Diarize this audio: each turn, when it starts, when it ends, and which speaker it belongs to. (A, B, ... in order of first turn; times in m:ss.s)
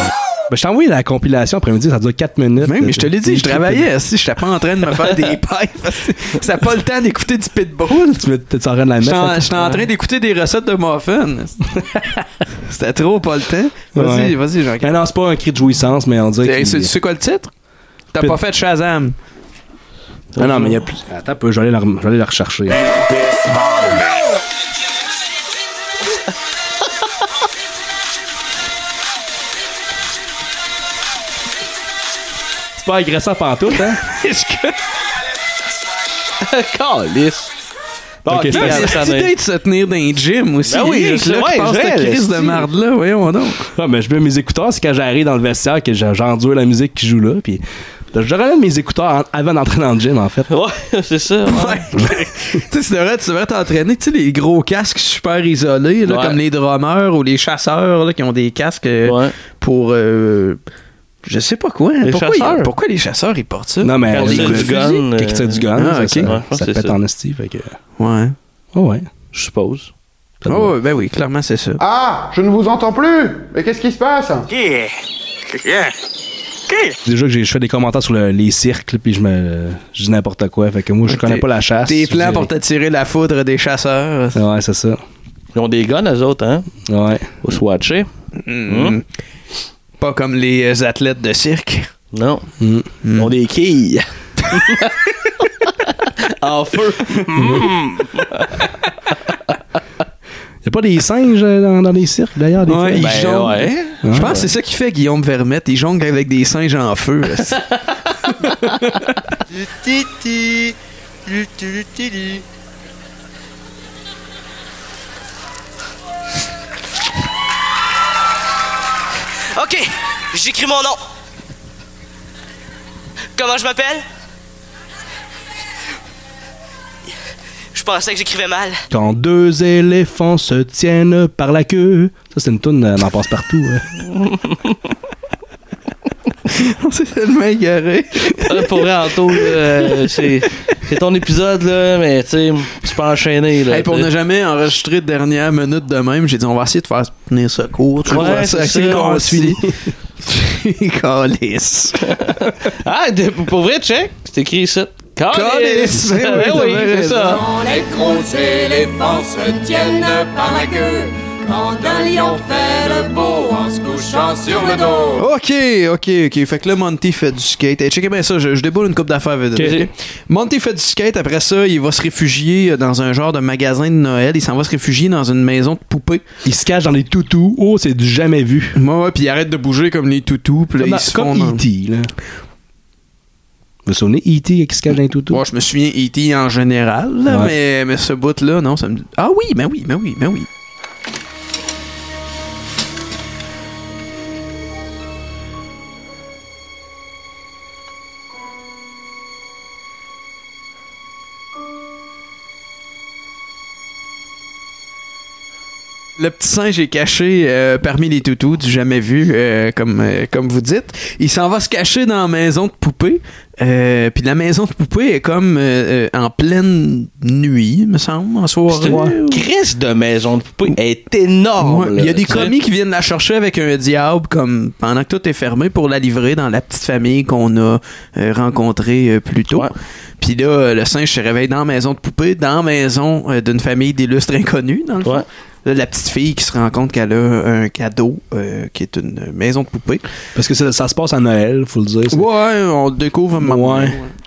0:00.5-0:03.9 A
0:02.6-0:08.3 B
0:08.2-0:09.5 A
0:09.0-0:11.6 B
0:12.7-0:15.0 B
0:13.9-0:16.9 A
0:16.4-0:17.5 B
0:18.1-0:19.2 B
0:20.4-0:20.8 C
0:20.4-0:22.8 A
0:32.8-0:34.0 A
0:34.1-0:34.8 B
0:36.4-0:37.5 C
0:38.2-0:39.3 C
0:38.3-0:39.0 A
0:38.5-0:43.7 B
0:40.7-0:42.7 C
0:43.8-0:50.5 A
0:50.5-0:51.9 C
0:51.5-1:00.6 B
0:56.1-0:56.4 C
0:59.0-0:59.3 C
1:01.2-1:04.8 B
1:02.0-1:02.7 C
1:03.8-1:07.8 A
1:04.1-1:05.7 C
1:05.8-1:06.3 B
1:06.3-1:07.0 C
1:08.0-1:08.4 B
1:08.7-1:09.1 A
1:09.3-1:09.9 C
1:10.4-1:10.7 A
1:10.5-1:11.8 B
1:11.8-1:14.5 D
1:17.0-1:22.5 A
1:21.1-1:24.4 B
1:24.4-1:25.0 A
1:25.6-1:26.7 C
1:26.9-1:27.3 A
1:27.4-1:28.1 C
1:28.4-1:29.0 B
1:28.7-1:29.0 C
1:30.0-1:31.9 B
1:32.1-1:32.5 C
1:32.6-1:32.9 A
1:33.0-1:33.3 B
1:33.2-1:35.0 C
1:36.4-1:38.5 C
1:37.4-1:37.7 A
1:40.6-1:43.3 A
1:42.7-1:47.6 B
1:43.0-1:44.4 C
1:44.0-1:44.4 A
1:59.6-2:01.0 E
2:03.4-2:04.0 E
2:07.7-2:08.8 E
2:08.9-2:13.8 A
2:16.5-2:18.7 B
2:18.4-2:24.1 C
2:23.7-2:29.6 B
2:28.1-2:29.2 C
2:28.1-2:29.8 A
2:30.2-2:32.2 B
2:32.2-2:37.5 C
2:35.3-2:37.4 B
2:37.5-2:40.9 F
2:42.0-2:45.1 F
2:45.2-2:56.2 B
2:49.6-2:49.9 A
2:56.4-2:58.8 A
2:58.8-3:01.6 B
3:00.8-3:02.1 A
3:03.9-3:05.4 A
3:05.3-3:10.5 B
3:07.3-3:07.5 A
3:26.2-3:39.3 B
3:38.7-3:42.5 C
3:38.8-3:39.2 A
3:41.6-4:00.1 B
4:00.4-4:02.2 A
4:02.1-4:04.1 B
4:03.4-4:04.0 A